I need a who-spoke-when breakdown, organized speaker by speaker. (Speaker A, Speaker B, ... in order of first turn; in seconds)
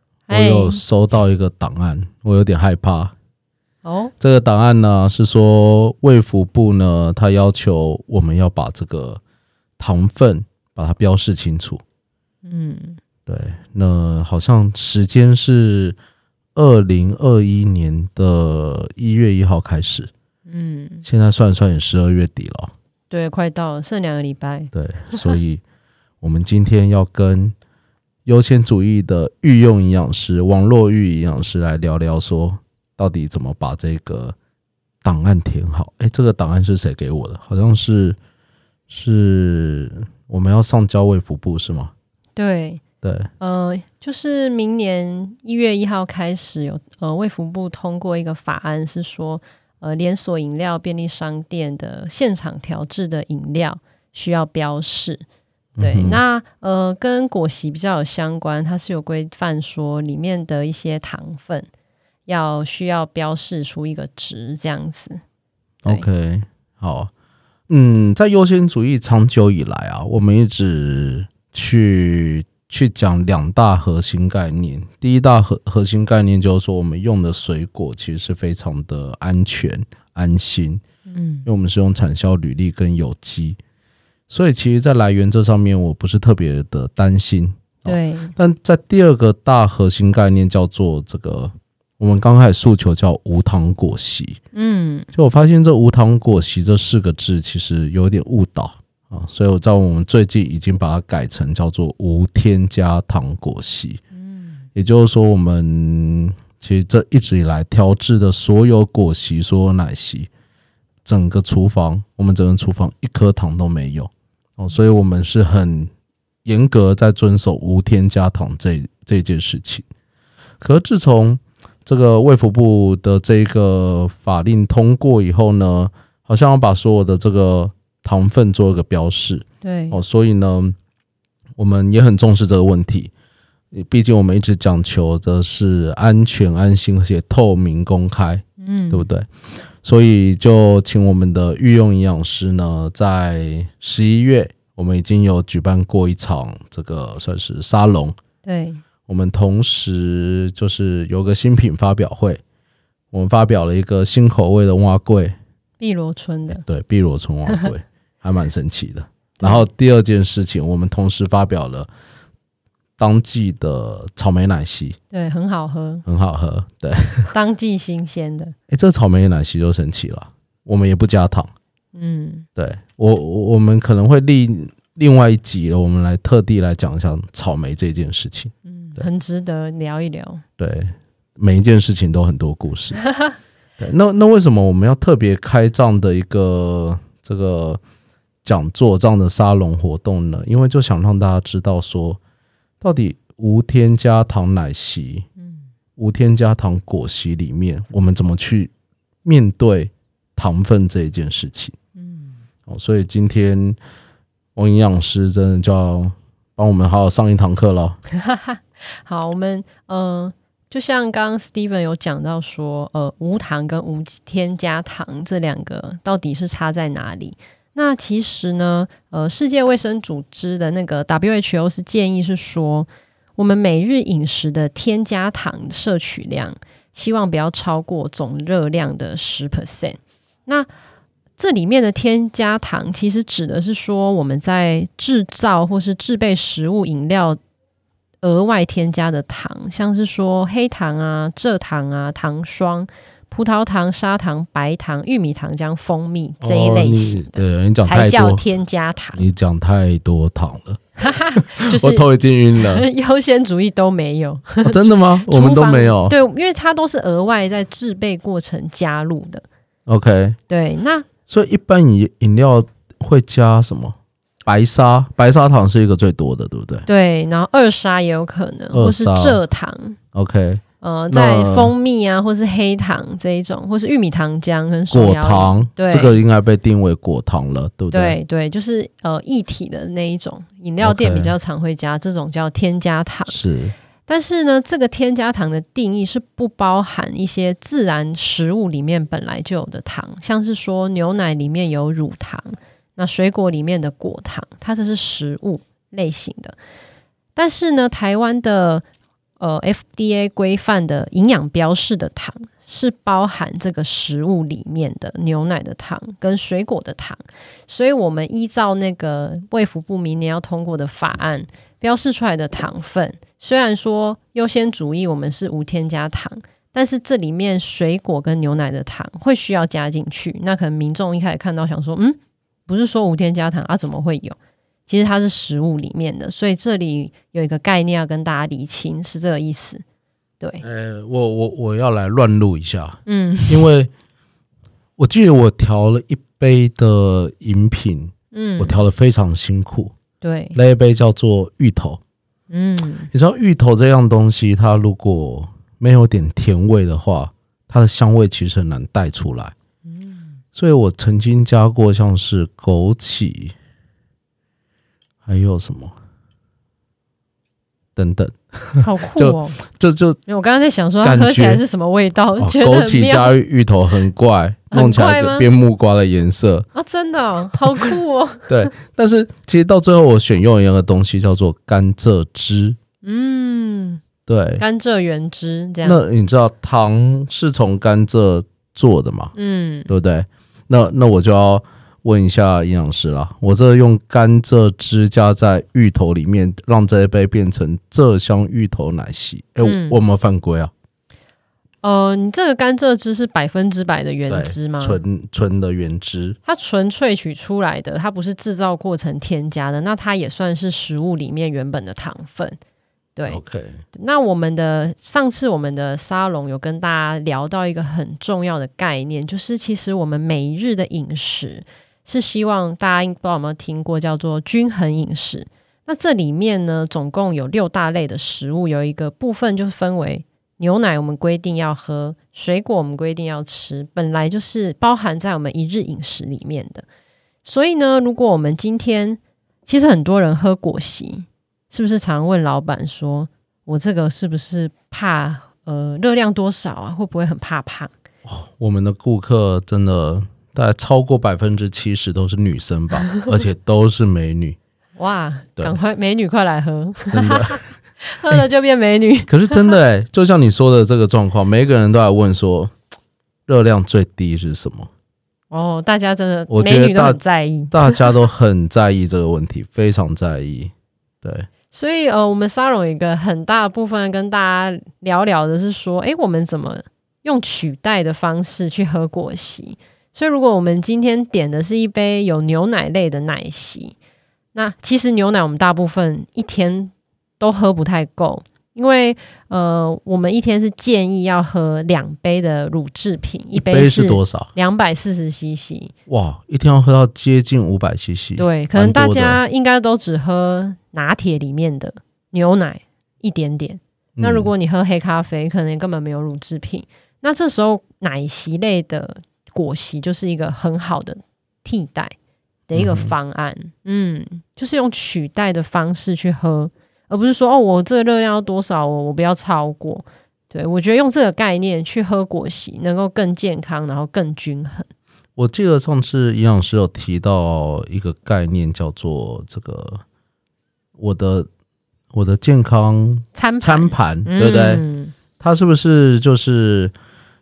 Speaker A: 0.3-0.8, 3.8-4.1, 12.4-13.0, 20.5-21.1, 23.1-25.4, 42.4-42.8, 43.4-55.2, 55.8-61.7, 62.2-65.2, 81.1-81.5, 87.8-88.3, 94.5-95.1, 104.1-104.6, 129.6-130.0, 138.6-139.1, 148.4-148.8, 155.8-156.6, 159.4-159.7, 165.1-166.0, 167.3-168.5, 171.9-172.5, 178.7-180.4, 195.4-195.7, 201.9-202.4, 208.1-230.7, 231.4-237.4, 238.2-249.3, 251.0-259.4, 260.5-261.1, 266.9-270.0, 270.8-276.2, 277.9-283.3, 284.1-296.6, 297.4-298.8, 299.4-324.4, 324.9-329.8, 333.1-333.7, 338.3-338.8, 340.2-340.6, 342.5-343.1, 349.9-350.3, 358.8-359.6, 360.3-363.3, 364.7-365.4, 366.7-368.5, 373.0-374.0, 374.6-376.0, 379.3-379.9, 389.6-389.9, 391.8-395.0, 396.4-402.6, 403.9-426.8, 427.4-437.9, 445.0-449.8, 455.5-458.0, 461.7-473.9, 474.5-485.9, 488.4-502.1, 502.7-514.9, 523.3-525.1
Speaker B: 0.3-3.1, 4.2-9.2, 9.8-11.8, 13.2-15.9, 16.5-20.1, 21.0-22.7, 24.7-25.6, 26.2-27.5, 28.2-34.4, 35.0-38.2, 38.9-41.9, 43.0-43.3, 55.8-56.2, 65.8-67.1, 67.7-80.8, 81.5-83.6, 84.3-94.4, 95.1-104.0, 104.7-110.3, 111.0-115.9, 116.4-119.8, 120.6-130.7, 131.6-133.1, 133.7-139.3, 139.8-148.2, 149.1-152.4, 153.1-155.3, 156.5-161.9, 163.0-165.0, 166.1-167.3, 168.7-171.5, 172.6-179.1, 180.6-183.0, 183.8-187.8, 188.4-192.2, 192.8-195.3, 195.9-198.7, 199.2-201.7, 202.7-203.8, 204.6-208.0, 246.4-248.4, 249.1-250.8, 251.3-252.9, 254.6-256.1, 259.9-260.4, 261.3-266.9, 268.7-269.4, 270.1-271.7, 274.9-278.1, 280.8-281.3, 283.3-283.7, 330.6-333.9, 335.0-339.9, 340.5-342.0, 343.1-349.5, 350.5-353.5, 355.2-355.9, 357.9-360.2, 361.0-361.6, 362.4-366.7, 368.5-372.8, 374.3-374.6, 375.8-379.3, 379.9-390.7, 394.3-396.4, 403.2-403.8, 438.2-444.6, 447.1-447.6, 449.3-452.7, 453.5-454.9, 456.5-457.2, 457.7-461.5, 483.5-484.5, 486.1-489.4, 494.2-494.5, 502.7-503.1, 515.4-520.0, 521.0-521.5, 522.1-524.8, 525.4-526.9